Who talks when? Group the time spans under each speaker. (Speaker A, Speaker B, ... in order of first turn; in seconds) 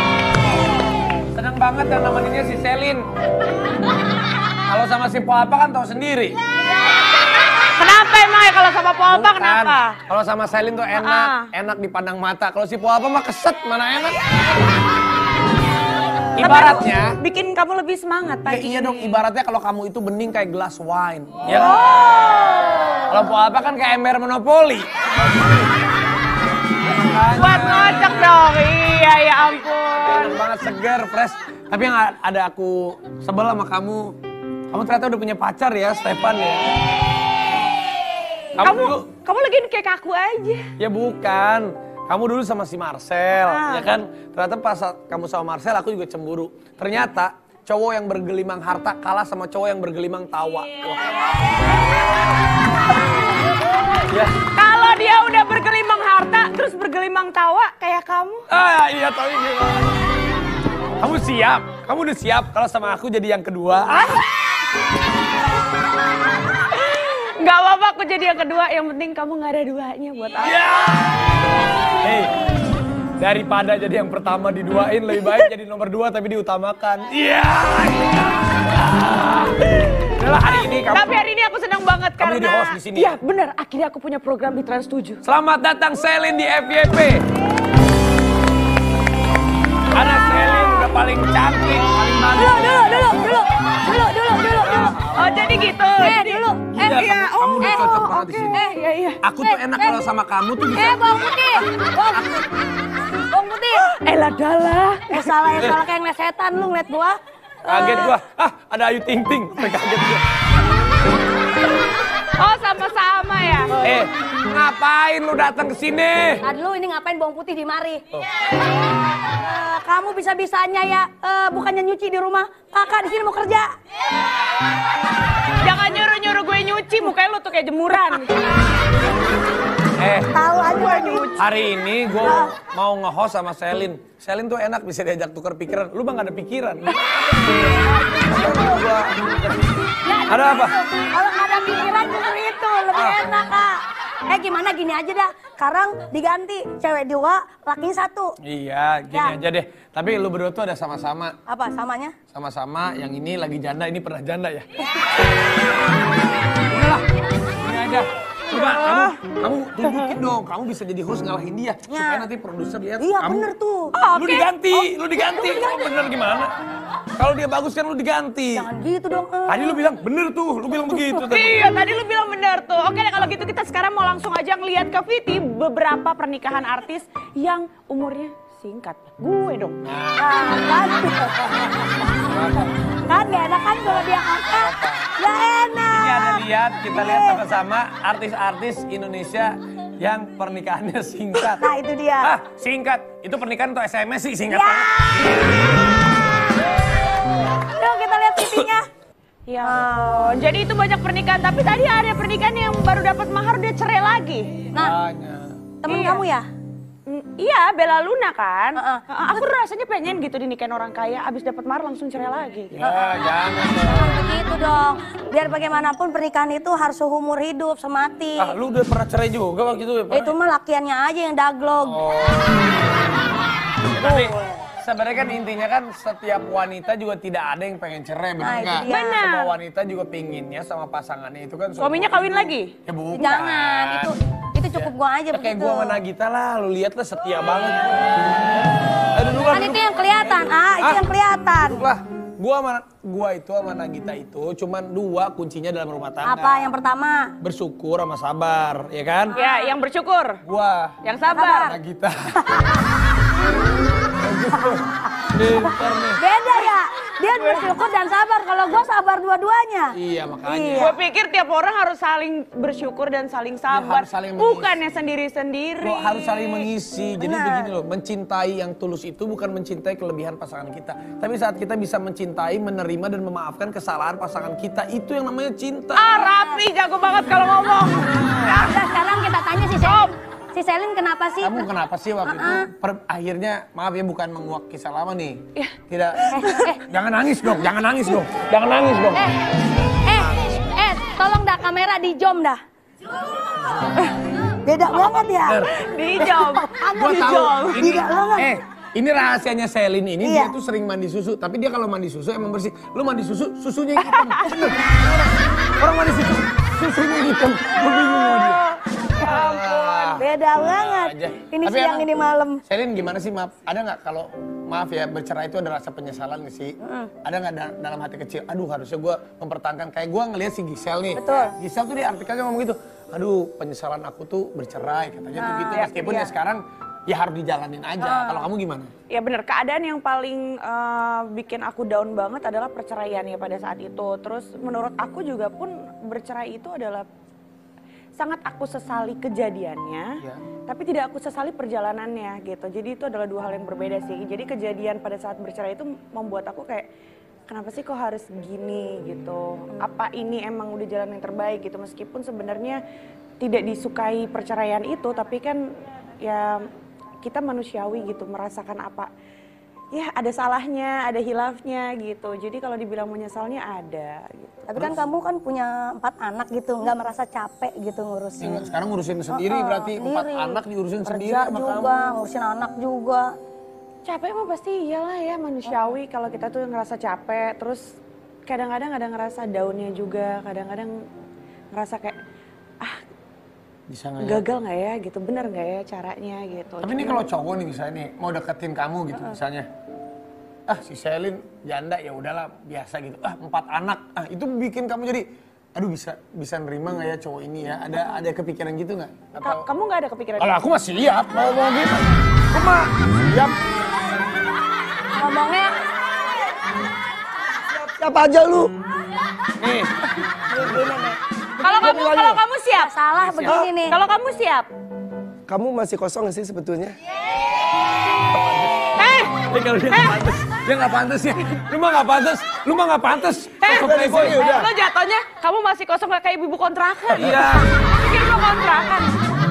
Speaker A: 1.3-3.0, 4.7-6.3, 9.1-14.2, 16.4-17.1, 18.5-21.9, 23.1-25.6, 26.8-28.4, 30.0-34.1, 34.7-36.7, 38.6-39.0, 40.8-51.2, 54.1-54.4, 58.5-60.0, 61.0-64.2, 70.4-71.2, 72.0-72.3, 73.2-81.1, 82.2-83.1, 85.2-87.2, 89.9-92.7, 94.6-95.0, 96.7-98.6, 99.2-101.0, 107.7-110.2, 113.8-116.5, 130.0-130.4, 131.4-137.5, 138.2-139.7, 140.3-140.8, 142.9-143.2, 148.4-151.4, 152.3-154.7, 156.7-157.1, 157.6-163.5, 164.1-166.5, 167.2-168.7, 169.5-171.6, 179.8-180.8, 182.2-182.7, 184.5-185.1, 185.9-191.7, 192.2-195.4, 204.7-205.8, 212.7-214.2, 218.4-220.3, 221.8-222.7, 223.9-232.3, 232.8-234.1, 234.7-238.4, 239.1-241.1, 241.6-246.8, 247.4-249.4, 250.4-251.0, 251.7-252.8, 254.2-256.2, 259.9-260.9, 263.7-264.8, 265.8-276.2, 281.4-289.2, 295.4-295.7, 296.9-312.1, 312.6-328.9, 364.7-365.0, 368.4-371.9, 383.9-384.4, 386.8-389.7, 390.7-399.6, 400.4-402.9, 409.6-409.9, 413.2-413.7, 418.3-424.4, 427.1-427.6
Speaker B: 7.7-10.0, 10.9-11.5, 16.4-19.1, 21.7-22.8, 27.3-30.3, 38.6-40.7, 43.4-43.9, 54.5-58.5, 66.7-70.7, 80.8-85.2, 95.1-99.2, 103.7-105.3, 107.7-108.1, 112.4-113.8, 125.6-128.3, 130.5-131.5, 158.5-159.2, 163.9-164.6, 171.2-179.8, 199.5-204.7, 205.8-206.2, 207.1-212.9, 223.9-224.3, 228.8-229.5, 231.8-232.8, 249.3-250.4, 251.0-251.7, 257.3-257.7, 260.8-266.7, 275.9-278.7, 279.8-280.1, 285.5-286.7, 294.9-297.9, 304.1-304.4, 309.2-310.2, 325.7-326.3, 329.1-337.1, 338.2-340.1, 340.7-346.9, 347.5-352.8, 353.4-355.6, 356.2-356.7, 357.2-359.1, 359.9-364.7, 374.0-377.9, 378.5-381.0, 381.7-382.2, 384.2-387.2, 399.4-400.6, 411.6-412.9, 413.4-414.7, 418.9-419.4, 419.9-420.2, 423.6-429.1
Speaker C: 92.3-95.0, 96.0-98.0, 99.4-100.0, 100.7-102.3, 103.3-103.8, 105.1-107.2, 107.7-108.1, 116.4-118.0, 119.2-123.7, 130.3-131.4, 132.2-132.5, 137.7-138.8, 140.0-143.8, 144.3-148.3, 149.1-149.3, 151.4-152.2, 161.9-162.2, 163.0-163.9, 165.1-165.9, 168.5-169.9, 170.7-171.2, 180.2-181.5, 182.9-187.4, 191.3-192.3, 194.5-195.3, 197.6-198.9, 199.6-200.4, 205.8-206.5, 208.8-209.0, 212.8-213.1, 213.7-218.5, 220.1-222.0, 228.4-229.2, 233.1-236.0, 239.4-241.8, 246.2-247.3, 249.3-249.7, 251.3-251.8, 252.4-252.7, 254.6-254.8, 256.2-260.9, 267.2-267.7, 276.2-276.6, 278.5-281.6, 282.2-282.7, 286.4-286.8, 289.9-292.6, 294.6-295.6, 296.2-297.2, 297.7-298.5, 300.2-300.5, 310.2-312.6, 316.8-317.1, 321.2-321.5, 325.4-325.7, 328.0-328.4, 364.7-368.7, 369.3-373.3, 405.1-405.7, 410.5-414.0
Speaker D: 407.8-408.7, 415.5-416.9, 423.7-424.7